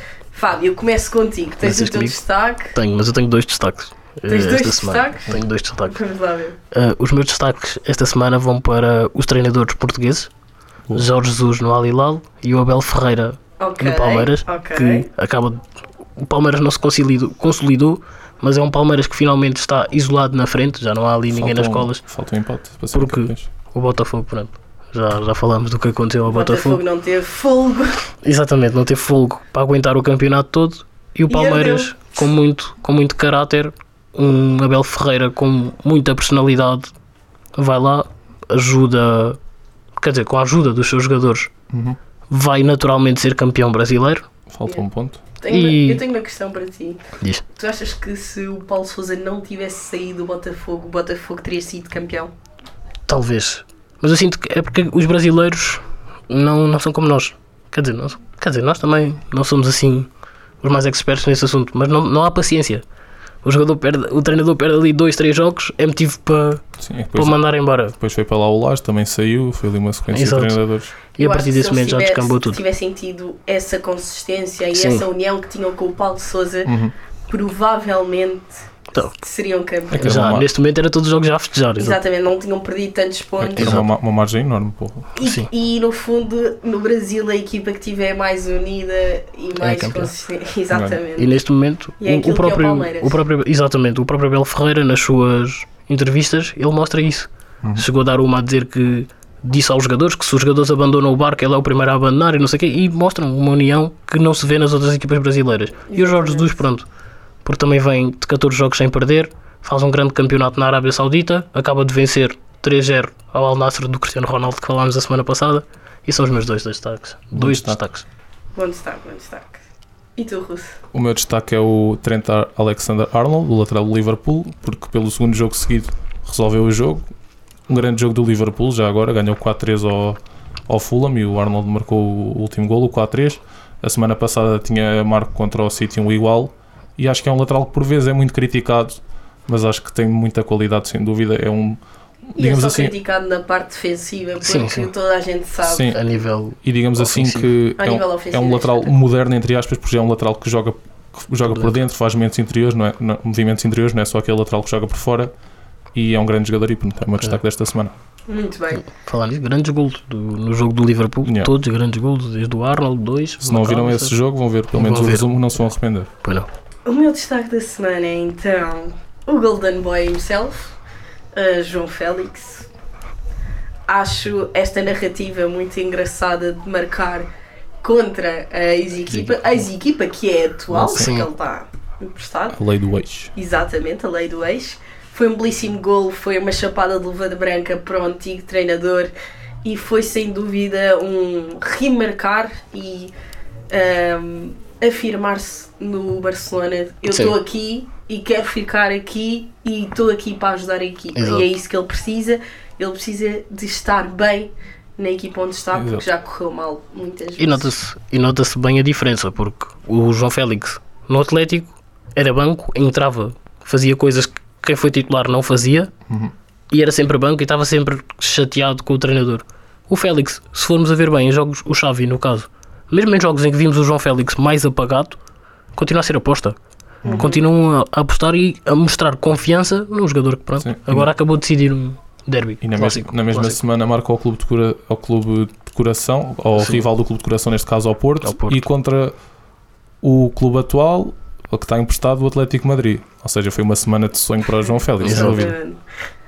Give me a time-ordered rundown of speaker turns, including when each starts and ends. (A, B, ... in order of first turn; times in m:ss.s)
0:00.3-0:02.8 A
0:01.6-0:02.2 B
0:02.7-0:06.0 B
0:04.3-0:06.6 A
0:06.7-0:10.3 B
0:10.9-0:15.6 B
0:13.6-0:15.1 A
0:16.2-0:22.0 B
0:21.3-0:23.5 C
0:22.9-0:26.8 B
0:26.2-0:28.1 A
0:28.2-0:36.9 B
0:31.3-0:32.0 A
0:37.5-0:39.4 B
0:40.0-0:41.5 B
0:41.7-0:42.0 C
0:42.3-0:44.2 B
0:44.5-0:45.2 C
0:45.4-0:47.0 A
0:45.5-0:46.0 B
0:47.5-0:52.3 A
0:53.1-1:00.1 B
1:00.6-1:02.8 B
1:03.4-1:07.9 B
1:06.8-1:10.9 C
1:10.1-1:12.6 B
1:11.2-1:16.7 A
1:14.7-1:15.0 B
1:16.6-1:16.9 C
1:17.3-1:20.1 A
1:19.9-1:20.5 C
1:20.0-1:22.0 B
1:21.8-1:23.8 A
1:23.4-1:25.1 C
1:23.6-1:23.9 B
1:25.1-1:31.3 A
1:25.2-1:25.5 B
1:29.6-1:30.1 B
1:30.7-1:31.0 C
1:31.2-1:46.8 B
1:32.0-1:33.2 A
1:45.9-1:46.6 A
1:47.4-1:58.0 B
1:57.3-1:57.8 C
1:58.6-1:59.6 A
2:00.2-2:00.8 A
2:00.9-2:07.0 C
2:07.7-2:21.8 C
2:22.3-2:22.9 C
2:22.4-2:25.9 A
2:24.4-2:24.9 B
2:25.6-2:26.0 C
2:25.8-2:27.5 B
2:26.6-2:35.3 C
2:27.8-2:28.9 A
2:35.9-2:37.9 C
2:38.3-2:38.8 A
2:38.8-2:44.1 B
2:41.2-2:41.5 C
2:43.4-2:46.1 C
2:44.7-2:45.3 B
2:46.8-2:50.8 A
2:51.3-2:52.7 A
2:53.9-2:57.3 A
2:57.8-3:02.6 A
3:00.7-3:01.2 C
3:00.8-3:01.3 B
3:02.5-3:03.3 C
3:03.3-3:09.1 A
3:09.6-3:13.1 A
3:13.7-3:27.7 A
3:17.1-3:17.4 B
3:21.1-3:21.5 B
3:25.7-3:26.0 C
3:27.4-3:35.9 B
3:36.7-3:45.2 B
3:45.8-3:46.6 B
3:47.0-3:47.3 C
3:47.0-3:47.4 A
3:47.1-3:53.6 B
3:50.6-3:51.1 C
3:52.6-3:59.1 C
3:56.5-3:56.9 B
3:58.2-3:58.6 B
4:00.0-4:05.5 C
4:05.0-4:05.8 A
4:05.0-4:05.5 B